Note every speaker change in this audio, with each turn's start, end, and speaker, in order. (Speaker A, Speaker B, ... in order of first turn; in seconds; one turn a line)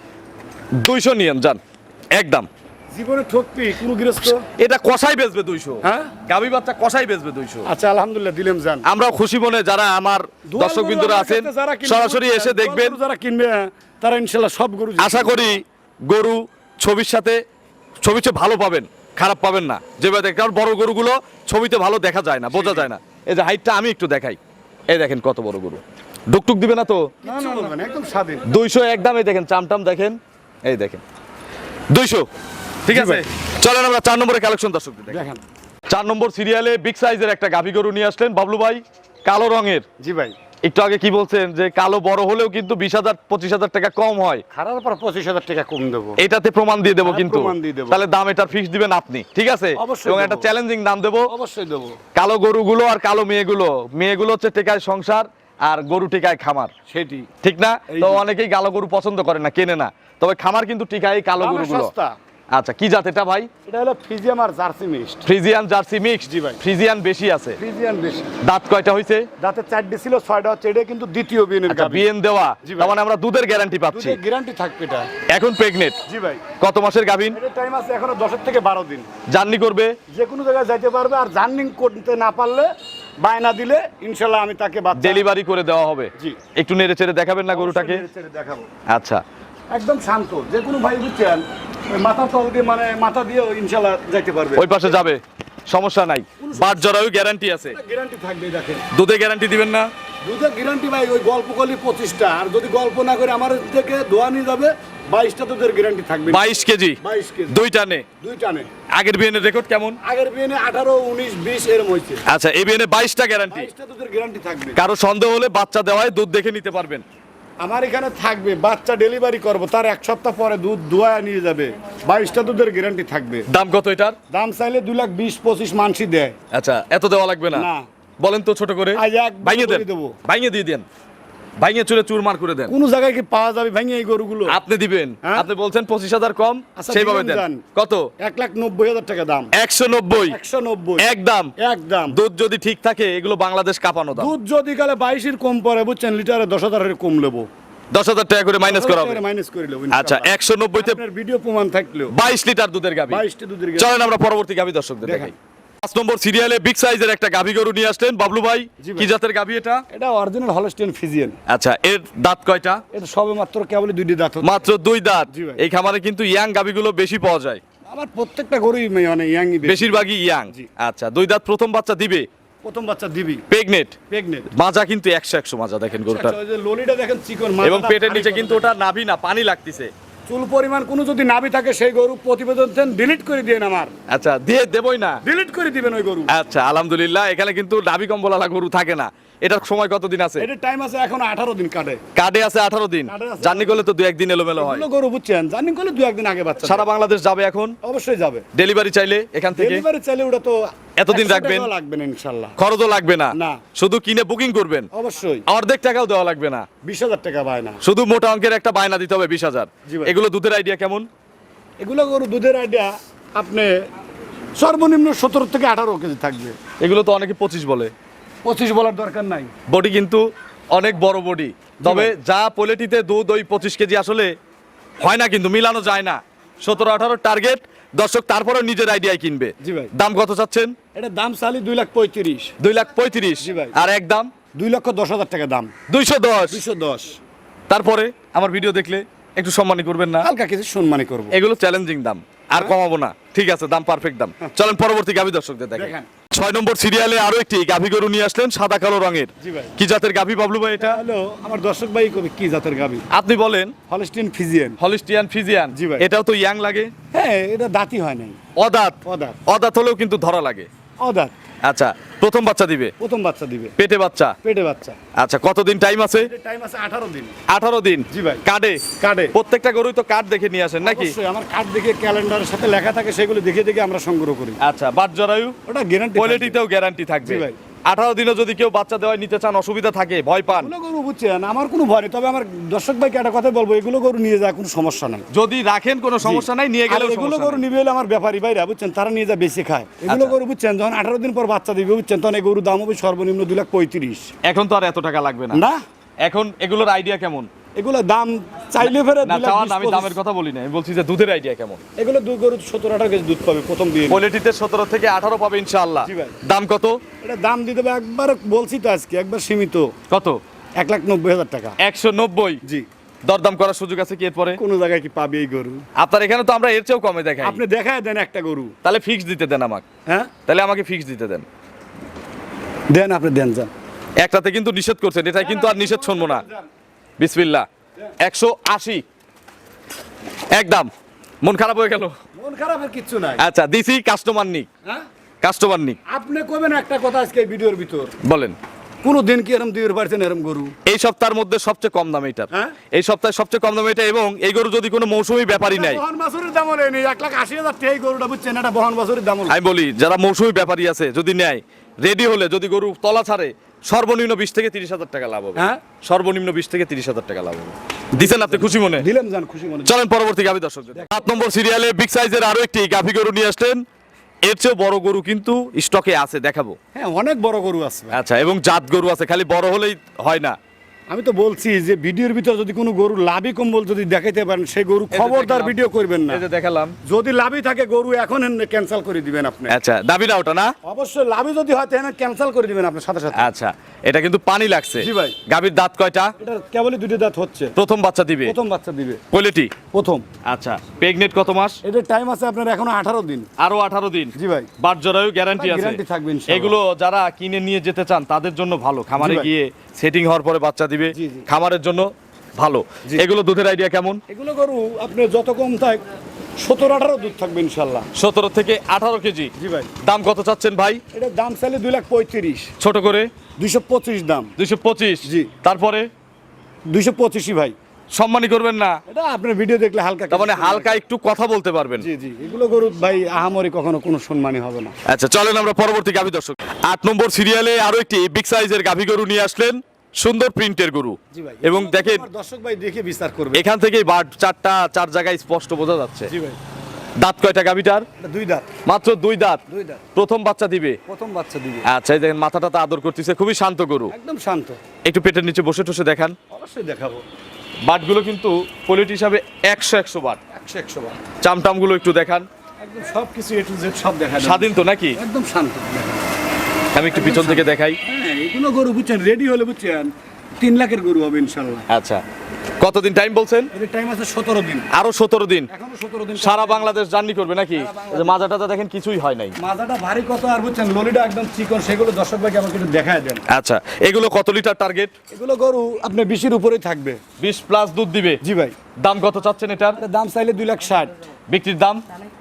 Speaker A: 0.8-1.6
Speaker A: 2.1-2.5
Speaker B: 2.9-4.5
Speaker A: 4.6-7.7
Speaker B: 5.8-6.1
Speaker B: 7.6-8.8
Speaker A: 8.8-13.0
Speaker B: 10.5-15.6
Speaker A: 15.0-17.4
Speaker A: 18.0-24.4
Speaker B: 22.5-22.9
Speaker A: 24.9-27.1
Speaker B: 27.2-28.5
Speaker A: 28.4-31.0
Speaker A: 31.9-32.3
Speaker A: 32.9-35.2
Speaker B: 32.9-33.2
Speaker B: 35.1-35.4
Speaker A: 35.9-39.8
Speaker B: 40.0-40.3
Speaker A: 40.6-44.4
Speaker B: 44.5-46.2
Speaker A: 46.2-51.3
Speaker B: 47.0-48.0
Speaker B: 49.8-50.5
Speaker B: 51.3-52.0
Speaker A: 52.1-56.7
Speaker B: 56.9-57.3
Speaker A: 57.4-61.9
Speaker B: 57.9-58.2
Speaker B: 61.4-62.1
Speaker A: 62.5-63.5
Speaker B: 63.6-65.3
Speaker A: 65.2-67.6
Speaker B: 66.2-66.6
Speaker B: 67.6-68.3
Speaker A: 68.4-69.3
Speaker B: 69.4-72.1
Speaker A: 71.7-74.2
Speaker B: 72.6-72.9
Speaker B: 73.9-75.1
Speaker A: 75.3-76.0
Speaker B: 76.1-76.4
Speaker A: 76.6-77.4
Speaker B: 77.3-79.1
Speaker A: 79.3-80.0
Speaker B: 80.1-82.7
Speaker B: 83.2-85.2
Speaker A: 84.9-88.0
Speaker B: 87.5-88.7
Speaker A: 88.9-89.2
Speaker B: 89.7-95.0
Speaker A: 94.5-97.8
Speaker B: 96.4-97.1
Speaker B: 97.7-98.8
Speaker A: 98.9-99.9
Speaker B: 100.2-107.6
Speaker A: 106.3-108.1
Speaker B: 108.2-108.7
Speaker A: 108.9-110.0
Speaker B: 110.0-112.2
Speaker A: 112.2-113.7
Speaker B: 113.5-114.8
Speaker A: 114.8-117.0
Speaker B: 117.6-123.5
Speaker A: 123.5-124.2
Speaker B: 124.3-126.3
Speaker A: 126.5-127.7
Speaker B: 127.5-127.9
Speaker A: 128.2-130.8
Speaker B: 128.9-130.2
Speaker A: 131.6-132.7
Speaker B: 132.7-134.6
Speaker A: 134.5-138.1
Speaker B: 135.2-135.5
Speaker B: 136.8-137.6
Speaker B: 138.2-139.5
Speaker A: 139.5-140.4
Speaker B: 140.2-142.2
Speaker A: 141.0-141.5
Speaker A: 142.1-144.3
Speaker B: 144.1-147.5
Speaker A: 147.9-149.2
Speaker B: 148.7-152.1
Speaker A: 149.9-151.0
Speaker A: 152.1-153.2
Speaker B: 153.1-153.9
Speaker A: 153.8-159.8
Speaker B: 155.0-155.3
Speaker B: 158.8-159.1
Speaker B: 159.9-161.4
Speaker A: 161.5-162.8
Speaker B: 162.9-164.6
Speaker A: 164.4-167.6
Speaker B: 165.3-165.6
Speaker B: 167.9-170.7
Speaker A: 169.6-172.3
Speaker B: 172.6-173.4
Speaker A: 173.5-174.0
Speaker B: 174.1-174.5
Speaker A: 174.5-176.4
Speaker B: 176.1-178.7
Speaker A: 177.6-179.9
Speaker B: 180.3-183.9
Speaker A: 184.1-185.2
Speaker B: 185.2-186.3
Speaker A: 186.3-190.5
Speaker B: 190.4-192.0
Speaker A: 192.1-194.9
Speaker B: 193.1-193.8
Speaker B: 194.6-196.9
Speaker A: 196.6-197.8
Speaker B: 197.8-198.5
Speaker A: 198.5-199.8
Speaker B: 199.5-202.6
Speaker A: 201.0-201.7
Speaker A: 202.6-204.9
Speaker B: 203.3-203.6
Speaker B: 204.9-205.4
Speaker A: 205.5-206.7
Speaker B: 206.8-207.8
Speaker A: 207.8-211.1
Speaker B: 209.8-210.1
Speaker B: 211.8-213.7
Speaker B: 214.6-216.6
Speaker A: 216.8-217.9
Speaker B: 218.4-219.5
Speaker A: 219.7-224.3
Speaker B: 221.8-222.1
Speaker A: 225.0-230.7
Speaker B: 229.6-229.9
Speaker B: 230.9-232.5
Speaker A: 232.6-234.3
Speaker B: 233.4-233.8
Speaker B: 234.5-235.7
Speaker A: 235.9-236.6
Speaker B: 236.5-237.2
Speaker A: 237.7-240.3
Speaker B: 240.2-241.4
Speaker A: 241.3-251.0
Speaker B: 245.7-246.1
Speaker B: 249.4-249.7
Speaker B: 250.8-253.0
Speaker A: 253.1-253.7
Speaker B: 253.9-254.8
Speaker A: 254.8-256.9
Speaker B: 255.7-256.1
Speaker B: 257.1-258.4
Speaker A: 258.6-260.7
Speaker B: 259.0-259.4
Speaker B: 261.0-261.3
Speaker A: 261.6-262.9
Speaker B: 263.0-263.7
Speaker A: 263.8-264.4
Speaker B: 264.4-265.0
Speaker A: 265.1-266.3
Speaker B: 266.2-267.3
Speaker A: 267.5-271.1
Speaker B: 268.1-269.3
Speaker B: 270.8-274.6
Speaker A: 274.6-275.6
Speaker B: 275.7-276.6
Speaker A: 276.1-280.7
Speaker B: 277.2-277.6
Speaker B: 280.5-285.3
Speaker A: 285.3-287.6
Speaker B: 286.2-294.3
Speaker A: 290.1-290.4
Speaker A: 294.4-295.6
Speaker B: 295.5-295.8
Speaker A: 296.2-297.5
Speaker B: 297.8-300.2
Speaker A: 298.8-301.8
Speaker B: 302.0-304.2
Speaker A: 304.1-307.0
Speaker B: 306.0-306.4
Speaker B: 307.2-309.9
Speaker A: 310.1-310.4
Speaker B: 310.8-311.8
Speaker A: 311.8-312.6
Speaker A: 313.2-314.6
Speaker B: 314.6-315.8
Speaker A: 315.9-317.6
Speaker B: 317.4-318.7
Speaker A: 318.8-319.8
Speaker A: 320.5-321.4
Speaker B: 322.9-323.7
Speaker A: 324.2-326.4
Speaker B: 325.4-326.7
Speaker A: 327.2-327.7
Speaker A: 328.2-329.0
Speaker A: 330.5-330.9
Speaker A: 331.4-332.1
Speaker B: 332.4-333.4
Speaker A: 333.4-334.7
Speaker A: 335.4-336.0
Speaker B: 336.1-338.1
Speaker A: 338.2-338.6
Speaker B: 339.0-340.7
Speaker A: 340.9-346.0
Speaker B: 345.7-349.6
Speaker A: 349.5-359.1
Speaker B: 355.6-355.8
Speaker B: 358.1-359.9
Speaker A: 359.8-363.8
Speaker B: 360.9-361.4
Speaker A: 364.4-366.8
Speaker B: 366.9-368.2
Speaker A: 368.1-370.6
Speaker B: 371.1-376.4
Speaker A: 375.1-376.9
Speaker B: 377.0-379.8
Speaker A: 379.7-380.7
Speaker B: 380.8-383.5
Speaker A: 383.3-386.3
Speaker B: 385.0-385.4
Speaker B: 386.4-387.7
Speaker A: 387.8-388.6
Speaker B: 388.4-389.2
Speaker A: 389.3-389.7
Speaker B: 389.9-390.2
Speaker A: 390.4-391.8
Speaker B: 391.8-393.5
Speaker A: 393.6-404.2
Speaker B: 394.3-394.7
Speaker B: 395.6-396.8
Speaker B: 399.2-399.5
Speaker B: 401.1-401.5
Speaker B: 404.3-406.0
Speaker B: 406.6-408.1
Speaker A: 408.1-411.0
Speaker B: 409.6-409.9
Speaker B: 411.1-412.7
Speaker A: 412.8-413.3
Speaker B: 413.6-414.5
Speaker A: 414.6-416.1
Speaker B: 415.2-415.5
Speaker B: 416.9-417.7
Speaker A: 418.1-419.0
Speaker B: 419.1-421.0
Speaker A: 420.3-422.1
Speaker B: 422.0-424.9
Speaker A: 425.1-432.2
Speaker B: 431.3-433.6
Speaker A: 433.5-436.3
Speaker B: 436.3-436.6
Speaker A: 437.2-438.1
Speaker B: 438.2-438.7
Speaker A: 438.9-439.6
Speaker B: 439.7-440.0
Speaker A: 440.1-441.0
Speaker B: 441.1-441.9
Speaker A: 441.9-444.1
Speaker B: 444.1-444.8
Speaker A: 445.0-446.4
Speaker B: 446.5-447.2
Speaker A: 447.8-450.4
Speaker B: 450.5-451.2
Speaker A: 451.4-452.5
Speaker B: 452.8-456.2
Speaker A: 454.4-455.2
Speaker A: 456.9-458.0
Speaker B: 457.1-461.9
Speaker A: 461.9-462.2
Speaker A: 462.8-463.7
Speaker B: 463.7-464.9
Speaker A: 464.9-465.7
Speaker B: 465.7-466.9
Speaker A: 466.4-469.5
Speaker B: 467.7-468.4
Speaker B: 469.6-473.4
Speaker A: 473.5-475.1
Speaker B: 475.3-477.2
Speaker A: 477.4-478.4
Speaker B: 478.4-478.7
Speaker A: 479.0-480.0
Speaker B: 480.0-481.1
Speaker A: 481.5-482.0